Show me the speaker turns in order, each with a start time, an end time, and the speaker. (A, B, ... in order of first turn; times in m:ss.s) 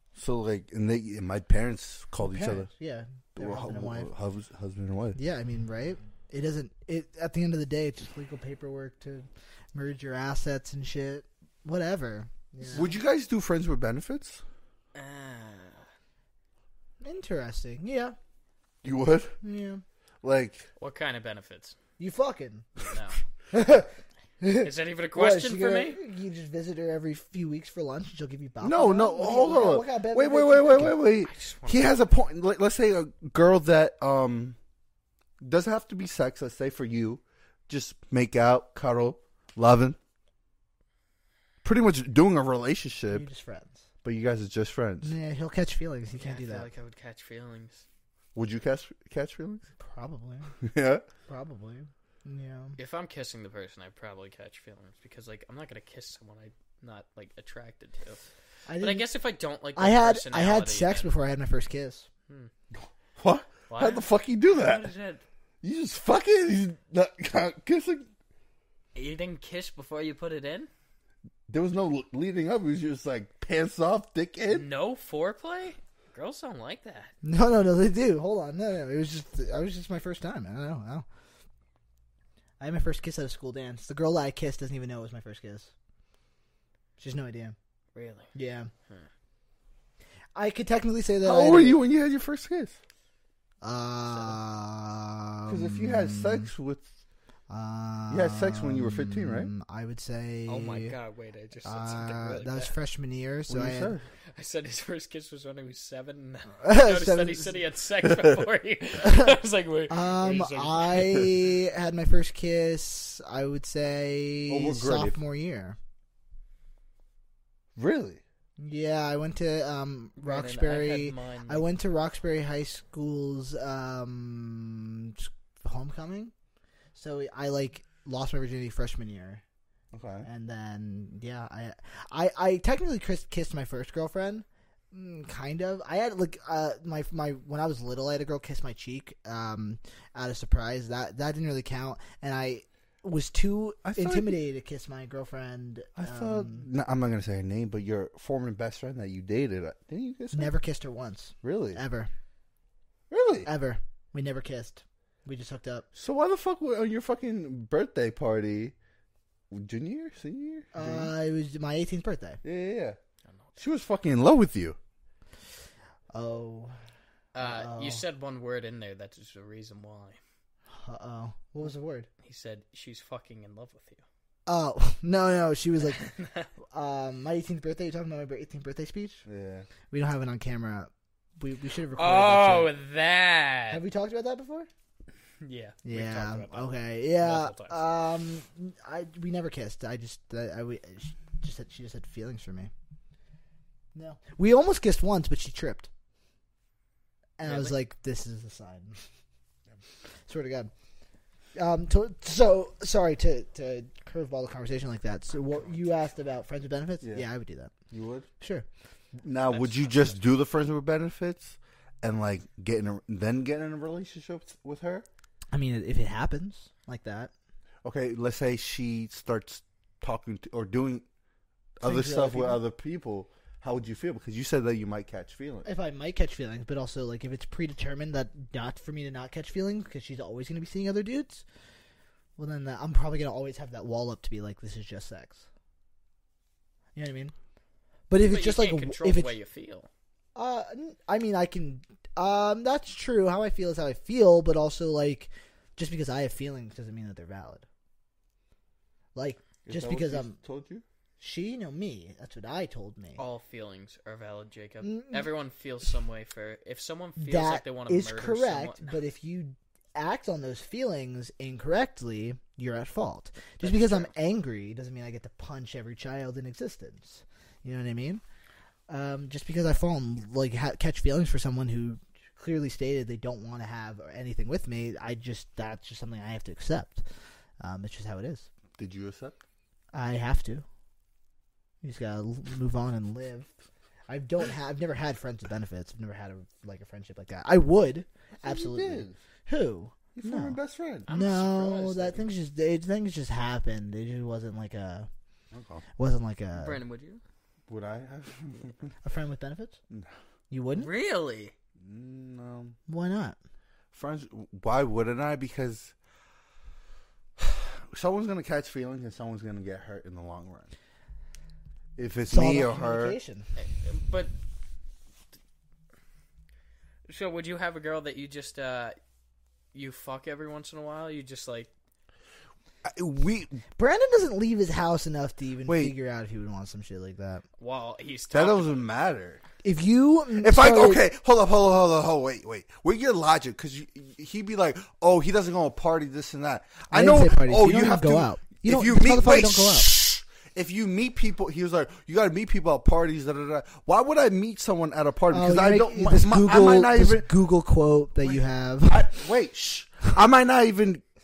0:00.2-0:02.7 A
0:02.2-0:04.1 B
0:03.4-0:05.2 A
0:05.2-0:12.9 B
0:12.6-0:14.4 A
0:14.9-0:15.8 C
0:17.0-0:18.1 B
0:18.8-0:19.4 A
0:19.4-0:19.8 B
0:20.2-0:20.6 A
0:20.8-0:21.7 C
0:22.0-0:22.7 B
0:22.8-0:23.2 C
0:23.5-0:23.9 B
0:24.4-0:31.0 B
0:24.6-0:26.0 C
0:28.6-0:34.6 A
0:31.2-0:31.9 C
0:35.4-0:40.0 A
0:41.6-0:43.2 A
0:43.1-0:43.9 B
0:44.0-0:45.1 A
0:45.0-0:46.7 B
0:46.1-0:47.8 C
0:48.3-0:49.7 A
0:49.8-0:50.5 B
0:50.6-0:51.0 A
0:51.3-0:52.8 B
0:52.8-0:58.2 C
0:58.7-0:59.1 B
0:58.8-1:01.1 C
0:59.8-1:02.1 B
1:02.7-1:04.9 A
1:03.7-1:05.2 C
1:05.6-1:08.1 A
1:08.9-1:10.7 C
1:11.5-1:14.7 A
1:14.5-1:17.1 C
1:17.2-1:21.0 B
1:22.6-1:25.7 B
1:27.0-1:27.6 B
1:27.9-1:28.3 C
1:28.3-1:28.7 B
1:30.4-1:31.8 B
1:31.2-1:32.8 A
1:33.6-1:36.5 B
1:34.1-1:34.3 C
1:35.5-1:36.9 A
1:37.5-1:40.9 B
1:38.1-1:39.5 A
1:40.5-1:42.7 C
1:41.6-1:43.9 B
1:43.5-1:44.0 A
1:44.3-1:51.3 C
1:46.6-1:47.5 B
1:49.0-1:55.8 B
1:54.5-1:55.2 A
1:57.8-1:58.2 A
1:58.6-2:06.3 B
2:00.2-2:01.6 C
2:06.9-2:09.4 B
2:09.9-2:10.3 A
2:10.2-2:26.6 B
2:23.8-2:24.4 A
2:26.0-2:30.5 A
2:30.3-2:32.1 B
2:31.4-2:31.8 A
2:33.1-2:33.5 A
2:33.4-2:35.8 B
2:35.9-2:38.7 A
2:39.5-2:41.1 A
2:40.7-2:42.4 B
2:42.4-2:43.0 A
2:43.6-2:44.8 A
2:46.1-2:46.8 B
2:47.3-2:50.2 C
2:47.4-2:48.0 B
2:50.7-2:52.1 B
2:52.2-2:54.0 C
2:54.5-2:56.0 B
2:55.8-2:56.5 C
2:56.7-2:59.2 B
2:59.2-2:59.7 A
2:59.9-3:02.7 B
3:01.9-3:03.8 C
3:03.7-3:04.7 B
3:05.4-3:07.8 C
3:05.8-3:12.7 B
3:13.9-3:15.9 B
3:17.4-3:19.0 B
3:17.4-3:17.7 C
3:20.3-3:20.7 B
3:21.5-3:27.7 B
3:27.9-3:28.3 A
3:28.4-3:28.6 B
3:29.2-3:35.0 A
3:29.5-3:30.1 C
3:35.5-3:37.3 B
3:37.8-3:41.0 A
3:41.8-3:45.7 A
3:41.8-3:42.6 B
3:45.6-3:51.4 B
3:52.4-3:55.4 B
3:56.9-3:57.3 B
3:58.1-3:59.3 B
3:58.2-3:59.9 C
4:00.3-4:07.6 B
4:09.1-4:10.4 B
4:09.6-4:10.8 A
4:11.2-4:13.2 B
4:13.2-4:19.0 C
4:14.8-4:15.3 B
4:17.2-4:28.2 B
4:23.6-4:24.1 C
4:28.9-4:37.0 B
4:37.6-4:38.5 B
4:38.8-4:39.4 A
4:39.9-4:40.6 B
4:41.8-4:43.5 B
4:44.1-4:55.1 B
4:48.4-4:49.2 A
4:50.1-4:51.1 A
4:51.1-4:52.2 C
4:55.5-4:55.8 A
4:56.0-4:56.8 B
4:56.5-4:57.2 C
4:57.7-4:58.9 A
4:59.0-4:59.8 B
5:00.5-5:00.9 B
5:00.7-5:01.5 C
5:01.8-5:02.7 A
5:02.9-5:03.4 B
5:03.9-5:05.9 A
5:07.4-5:10.7 A
5:12.0-5:13.2 A
5:12.3-5:13.5 B
5:13.6-5:14.3 C
5:17.1-5:19.0 C
5:19.7-5:21.7 C
5:22.8-5:23.6 A
5:23.8-5:27.4 B
5:25.6-5:25.9 A
5:27.6-5:28.8 C
5:28.3-5:29.4 A
5:29.6-5:31.0 B
5:30.4-5:47.3 A
5:36.9-5:39.9 B
5:45.3-5:49.1 B
5:48.8-5:51.0 A